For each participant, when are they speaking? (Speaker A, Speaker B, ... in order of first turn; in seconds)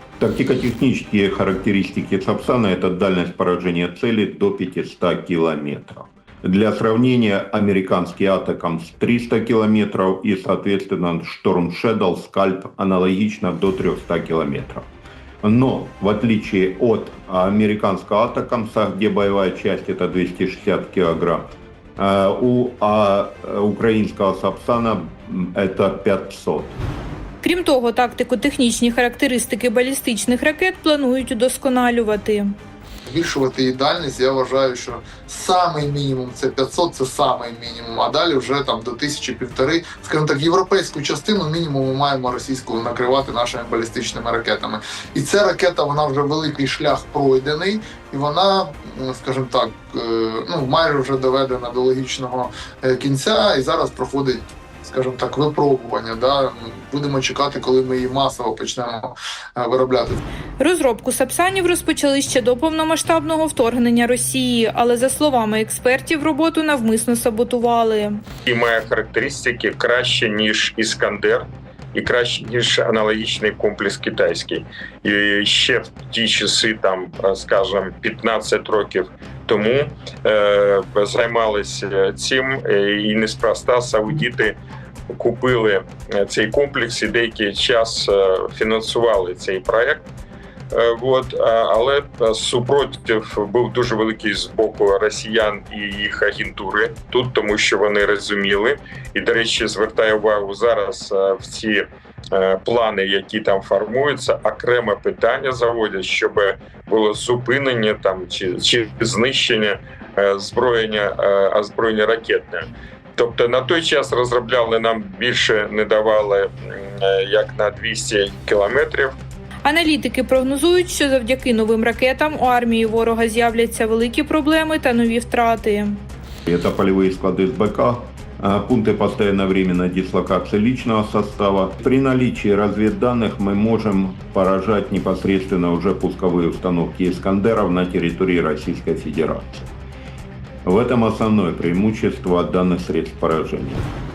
Speaker A: 0.2-14.8, 15.4-26.8, 126.5-139.7, 140.6-143.9
Speaker B: 27.4-32.6, 60.6-68.2, 119.7-126.0
Speaker C: 33.1-60.2
Speaker D: 68.4-84.6, 85.1-90.0, 90.7-119.1